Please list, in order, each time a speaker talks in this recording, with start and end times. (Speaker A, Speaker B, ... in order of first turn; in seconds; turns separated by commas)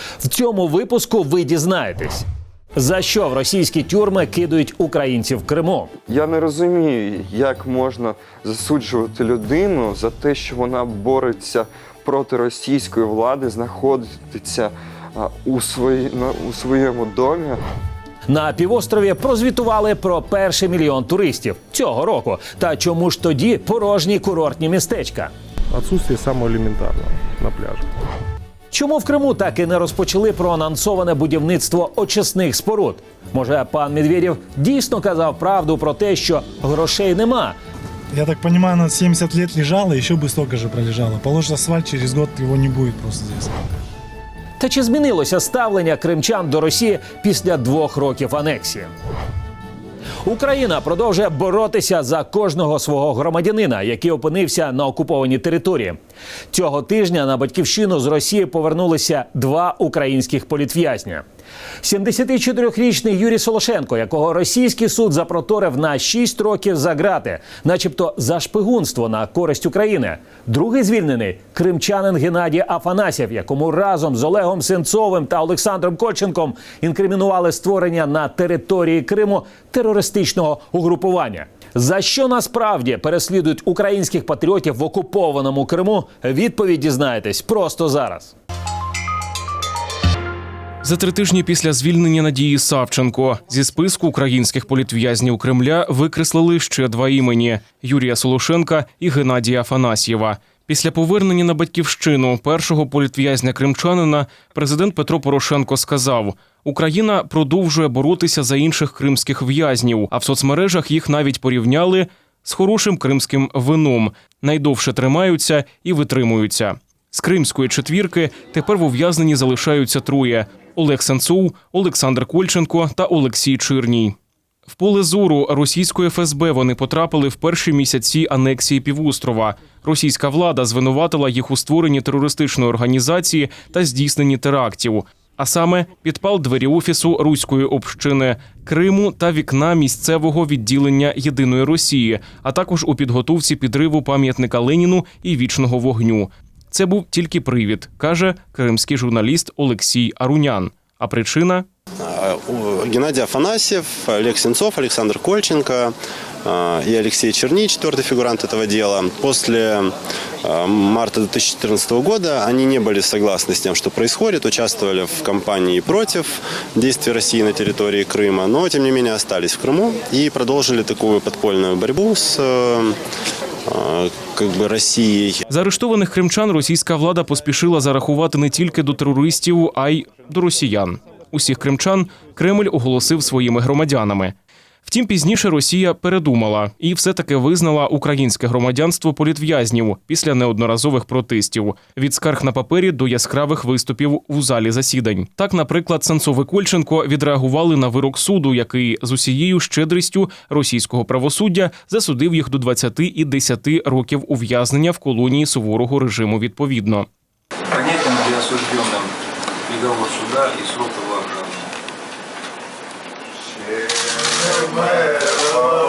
Speaker A: 0.2-2.3, Speaker A: 2.8-5.9, Speaker B: 6.1-17.6, Speaker A: 18.3-25.3, Speaker C: 25.7-27.9, Speaker A: 28.7-37.6, Speaker D: 38.1-43.8, Speaker A: 44.6-48.9, Speaker A: 50.2-56.0, Speaker A: 56.5-61.2, Speaker A: 61.8-88.3, Speaker E: 90.8-124.2, Speaker E: 124.7-151.7, Speaker F: 152.0-173.0, Speaker F: 173.7-175.4, Speaker E: 175.5-207.1, Speaker G: 207.7-209.1, Speaker G: 209.7-211.7